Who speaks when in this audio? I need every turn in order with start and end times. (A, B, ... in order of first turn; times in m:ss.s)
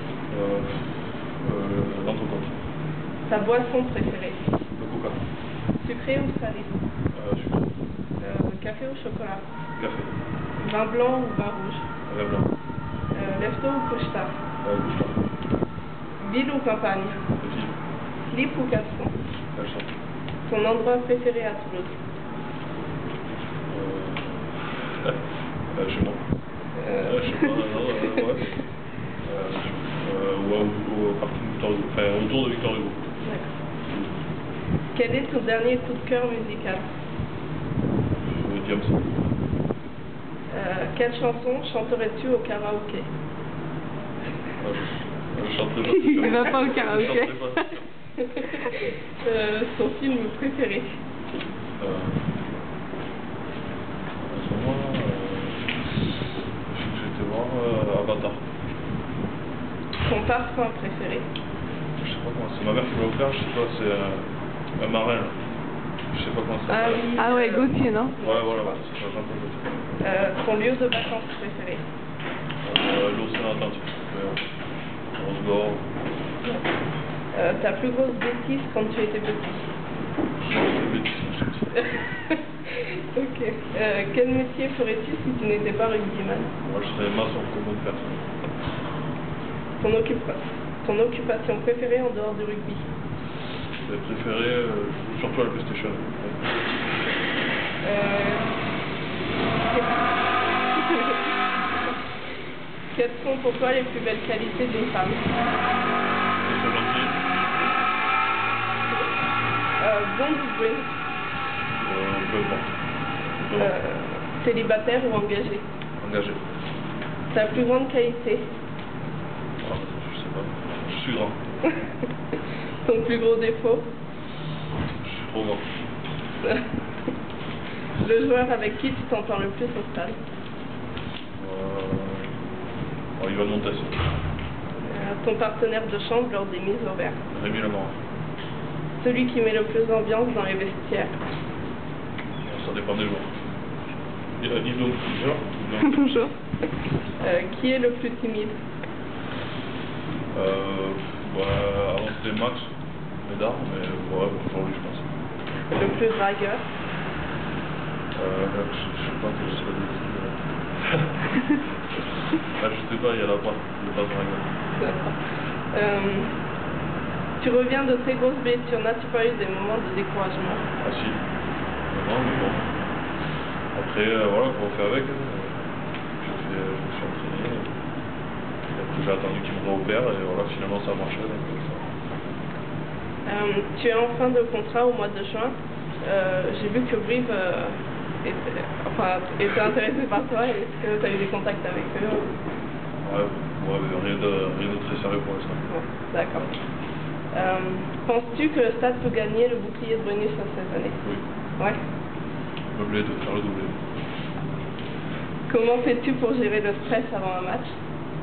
0:00.3-0:02.6 A
0:03.3-0:04.4 B
0:04.8-0:05.2 A
0:05.8-0:06.8 B
0:07.1-0:07.8 A
0:08.2-0:09.4 B
0:09.8-0:10.1 A
0:10.6-0:11.9 B
0:12.1-0:12.5 A
0:13.1-0:14.4 B
0:14.6-0:15.3 A
0:16.2-0:17.2 B
0:17.4-0:17.7 A
0:18.3-0:19.2 B
0:19.5-0:19.9 A
0:20.5-0:22.0 B
0:23.7-0:25.2 A
0:25.7-0:26.2 A
0:26.8-0:28.2 B
0:27.0-0:28.6 A
0:29.2-0:33.0 A
0:33.2-0:33.5 B
0:33.9-0:34.2 A
0:34.9-0:36.9 B
0:38.3-0:39.3 A
0:40.5-0:43.1 B
0:44.6-0:47.8 A
0:45.9-0:47.7 C
0:48.2-0:51.0 B
0:51.8-0:52.6 A
0:54.3-0:55.9 A
0:56.7-0:58.4 A
1:00.0-1:01.3 B
1:02.0-1:05.4 A
1:06.1-1:07.1 A
1:06.7-1:08.8 B
1:07.0-1:08.2 C
1:08.2-1:10.3 A
1:10.0-1:11.8 B
1:12.6-1:14.6 A
1:15.2-1:15.9 A
1:16.4-1:16.7 B
1:17.3-1:19.7 B
1:20.4-1:21.9 A
1:21.8-1:26.6 B
1:26.6-1:28.3 A
1:29.8-1:32.9 B
1:33.8-1:36.7 A
1:37.8-1:38.5 B
1:39.7-1:40.2 B
1:40.7-1:42.0 B
1:42.9-1:45.4 B
1:46.4-1:47.7 A
1:49.8-1:50.9 B
1:51.8-1:52.7 A
1:53.4-1:53.8 A
1:53.5-1:55.7 B
1:56.0-1:56.4 A
1:57.3-1:58.5 B
1:59.6-2:01.4 A
2:02.8-2:03.9 B
2:05.0-2:05.6 A
2:08.0-2:10.2 B
2:11.4-2:12.3 A
2:13.2-2:14.0 A
2:14.9-2:17.2 B
2:17.3-2:17.9 A
2:19.0-2:21.2 B
2:22.4-2:23.3 A
2:24.4-2:26.1 A
2:25.8-2:26.3 C
2:27.2-2:28.6 B
2:30.3-2:32.7 A
2:33.2-2:35.1 A
2:35.7-2:36.7 B
2:38.1-2:41.5 A
2:42.4-2:44.5 A
2:44.8-2:46.3 B
2:47.4-2:50.7 B
2:50.8-2:51.2 A
2:51.9-2:52.7 A
2:53.7-2:55.7 A
2:56.2-2:57.7 A
2:58.7-3:01.9 A
3:03.3-3:12.3 B
3:13.0-3:15.6 A
3:15.7-3:16.6 B
3:17.3-3:21.0 B
3:22.7-3:23.8 A
3:25.5-3:27.7 B